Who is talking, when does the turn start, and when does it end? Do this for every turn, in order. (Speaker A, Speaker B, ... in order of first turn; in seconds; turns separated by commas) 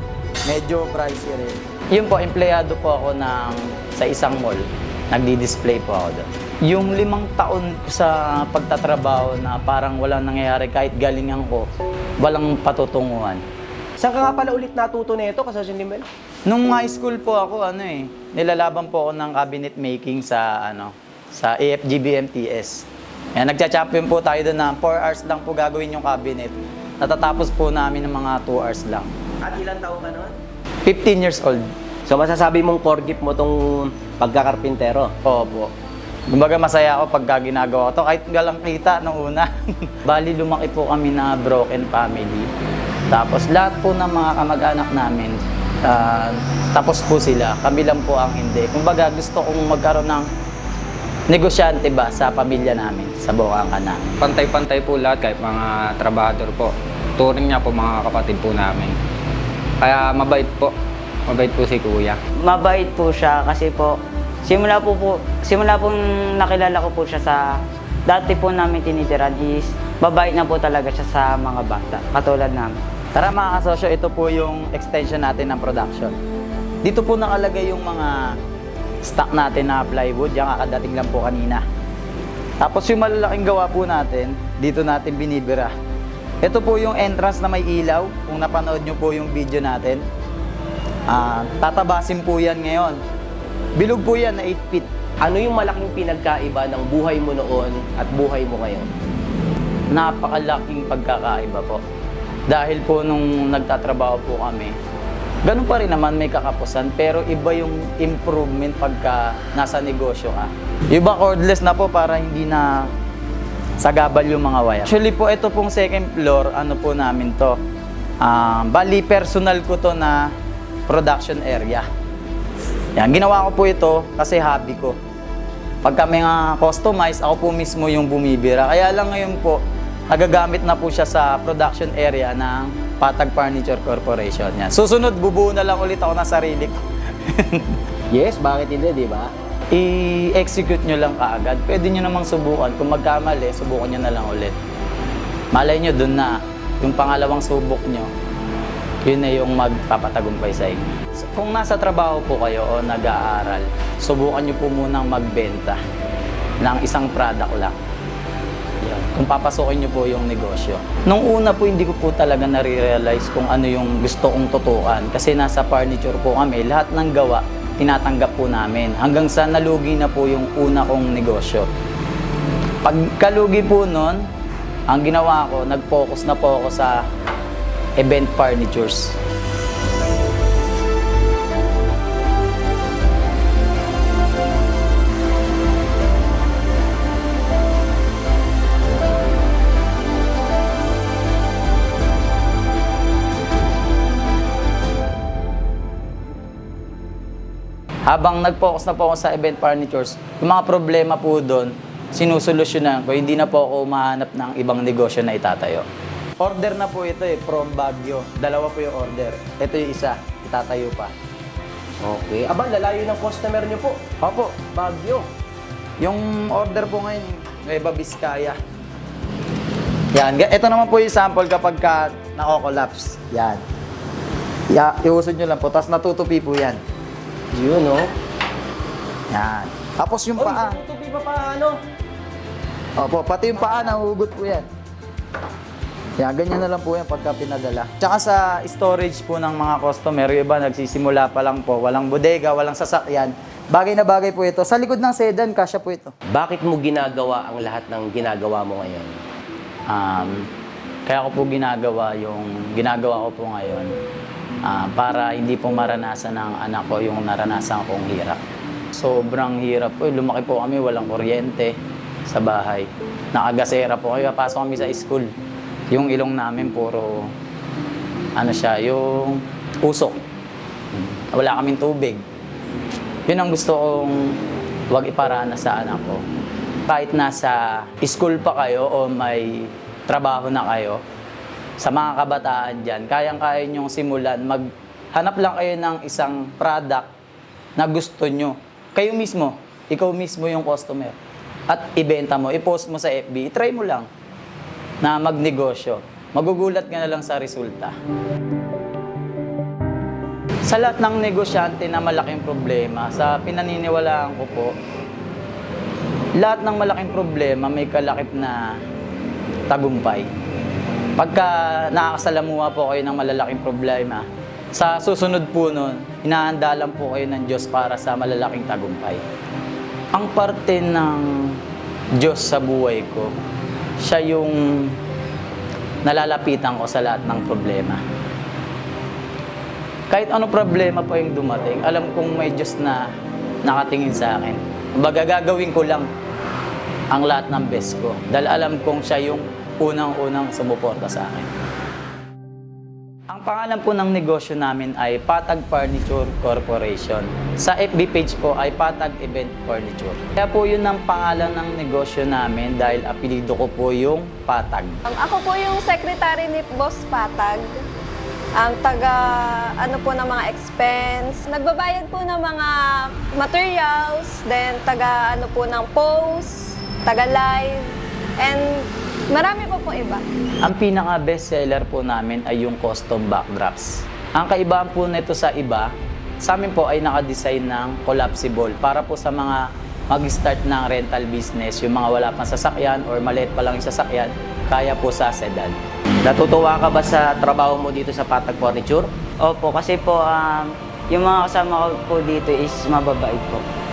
Speaker A: 0.5-11.7, Speaker A: 12.2-13.4, Speaker B: 14.0-16.1, Speaker A: 16.5-29.1, Speaker B: 29.4-30.4, Speaker A: 30.9-31.7, Speaker B: 32.1-35.1, Speaker A: 35.2-35.7, Speaker A: 36.3-42.5, Speaker A: 43.1-50.3, Speaker A: 51.3-54.2, Speaker C: 54.2-59.0, Speaker C: 59.8-60.7, Speaker C: 61.3-62.2, Speaker D: 62.4-67.5, Speaker D: 68.1-72.8, Speaker A: 73.2-76.2, Speaker A: 76.8-78.3, Speaker A: 79.0-81.6, Speaker A: 82.6-85.7, Speaker A: 86.4-90.0, Speaker A: 91.1-93.0, Speaker A: 93.8-94.9, Speaker B: 95.2-98.9, Speaker A: 99.9-101.8, Speaker A: 102.5-104.8, Speaker A: 105.5-112.9, Speaker A: 113.8-117.6, Speaker A: 118.2-120.3, Speaker A: 120.9-121.9, Speaker A: 123.0-125.0, Speaker A: 125.8-137.8, Speaker B: 138.1-139.3, Speaker A: 139.7-144.6, Speaker A: 145.5-148.1, Speaker A: 149.1-155.8, Speaker A: 156.6-157.8, Speaker A: 158.8-171.7, Speaker A: 172.8-174.2, Speaker A: 174.9-177.0, Speaker A: 178.0-179.2, Speaker A: 198.1-205.9, Speaker A: 206.4-211.1, Speaker B: 212.0-214.0, Speaker A: 214.2-214.6, Speaker B: 214.7-215.3, Speaker A: 216.0-218.6, Speaker A: 220.1-223.6, Speaker A: 224.7-226.8, Speaker B: 227.5-228.1, Speaker A: 229.3-230.8, Speaker B: 230.4-231.8, Speaker A: 233.0-234.7, Speaker A: 236.2-246.1, Speaker B: 246.3-249.2, Speaker A: 249.9-250.4, Speaker A: 251.1-253.9, Speaker A: 254.7-258.4, Speaker A: 258.9-261.8, Speaker A: 262.3-265.3, Speaker A: 265.9-267.3, Speaker A: 268.4-270.2, Speaker A: 270.9-272.2, Speaker A: 273.3-274.4, Speaker A: 274.9-276.2, Speaker A: 276.9-281.0, Speaker A: 281.8-287.1, Speaker A: 287.8-291.2, Speaker A: 291.7-294.1, Speaker A: 295.0-298.0, Speaker A: 300.6-304.7, Speaker A: 306.4-308.8, Speaker A: 309.7-310.3, Speaker A: 311.2-319.2, Speaker A: 320.1-321.6, Speaker A: 322.2-323.3, Speaker A: 324.0-324.9, Speaker A: 326.1-328.0, Speaker A: 330.1-333.1, Speaker A: 333.6-336.1, Speaker A: 337.1-341.5, Speaker A: 343.3-355.0, Speaker E: 355.1-357.7, Speaker E: 358.6-367.9, Speaker E: 368.4-370.2, Speaker A: 370.6-385.8, Speaker B: 386.2-389.1, Speaker D: 389.4-393.6